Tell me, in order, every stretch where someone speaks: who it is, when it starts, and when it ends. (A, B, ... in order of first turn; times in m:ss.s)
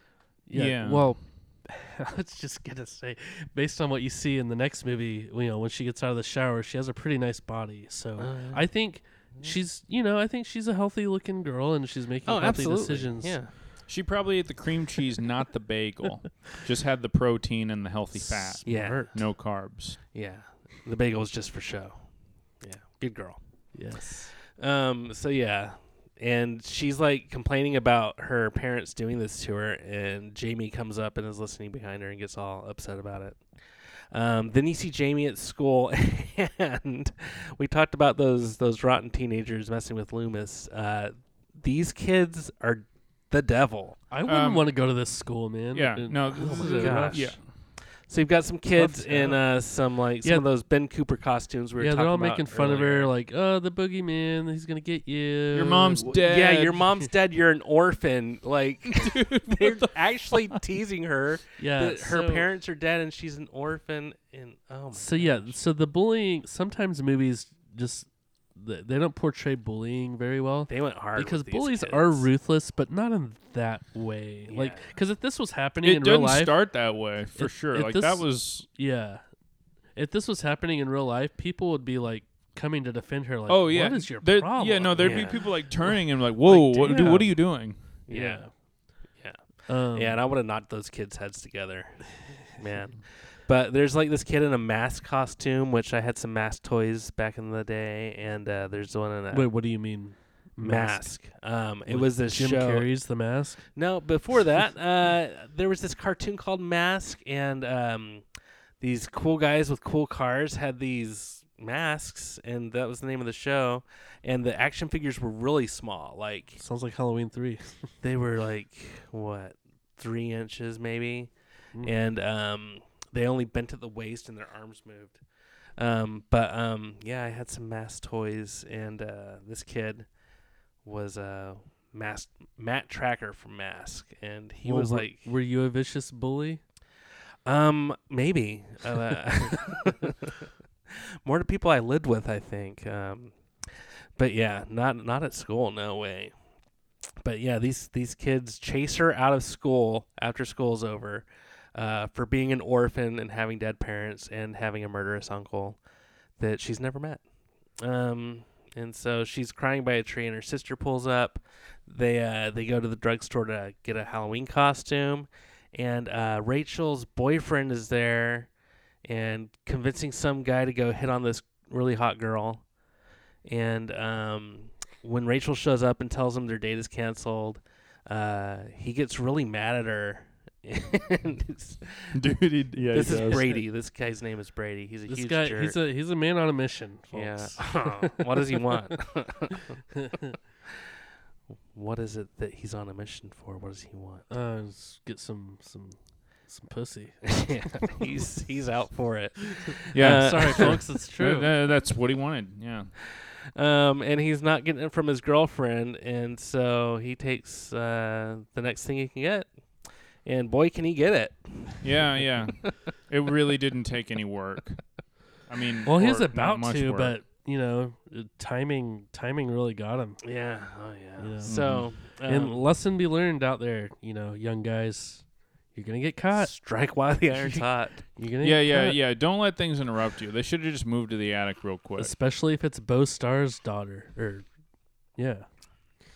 0:00.4-0:13.4 A
0:00.5-0:01.1 B
0:08.2-0:08.6 C
0:12.2-0:13.5 C
0:13.9-0:20.0 B
0:18.2-0:19.2 A
0:18.6-0:19.2 C
0:20.1-0:22.0 C
0:22.6-0:23.4 C
0:23.7-0:24.3 A
0:24.5-0:33.4 C
0:34.1-0:44.0 C
0:44.1-0:47.4 A
0:44.2-0:44.7 B
0:45.7-0:47.4 B
0:46.4-0:47.4 C
0:48.0-0:53.1 C
0:48.7-0:49.5 A
0:51.8-0:56.1 A
0:55.5-0:56.8 B
0:56.0-1:05.5 C
0:58.9-1:00.6 B
1:01.6-1:02.5 A
1:04.9-1:16.6 A
1:10.7-1:12.3 C
1:14.5-1:14.8 C
1:15.8-1:18.7 B
1:17.3-1:19.2 A
1:20.0-1:25.9 A
1:23.5-1:27.8 B
1:25.0-1:25.4 C
1:26.4-1:28.5 A
1:26.9-1:27.2 C
1:28.1-1:28.4 C
1:29.2-1:39.5 C
1:29.7-1:30.2 A
1:39.3-1:41.1 A
1:40.6-1:42.9 C
1:41.8-1:43.6 A
1:43.7-1:48.2 C
1:48.8-1:56.6 C
1:56.6-1:57.9 A
1:58.0-2:01.3 C
2:01.8-2:05.2 C
2:05.8-2:10.1 C
2:10.8-2:15.3 C
2:14.6-2:16.6 A
2:17.4-2:26.3 C
2:27.2-2:35.8 C
2:36.4-2:37.2 C
2:37.8-2:48.5 C
2:49.0-2:52.6 C
2:53.4-3:02.1 C
3:02.1-3:03.5 B
3:02.9-3:05.8 C
3:03.0-3:03.6 A
3:05.1-3:08.6 A
3:07.1-3:09.8 C
3:09.9-3:10.3 A
3:11.7-3:14.2 C
3:14.3-3:18.0 A
3:17.2-3:20.8 C
3:19.6-3:21.5 A
3:19.9-3:22.9 B
3:23.1-3:32.7 C
3:31.8-3:34.8 B
3:35.4-3:37.2 B
3:35.8-3:40.2 A
3:40.2-3:42.7 C
3:41.2-3:46.5 A
3:41.4-3:41.8 B
3:46.3-3:48.0 C
3:47.3-3:47.6 A
3:48.1-3:49.0 A
3:48.4-3:52.1 B
3:52.0-3:54.5 A
3:55.1-3:55.5 A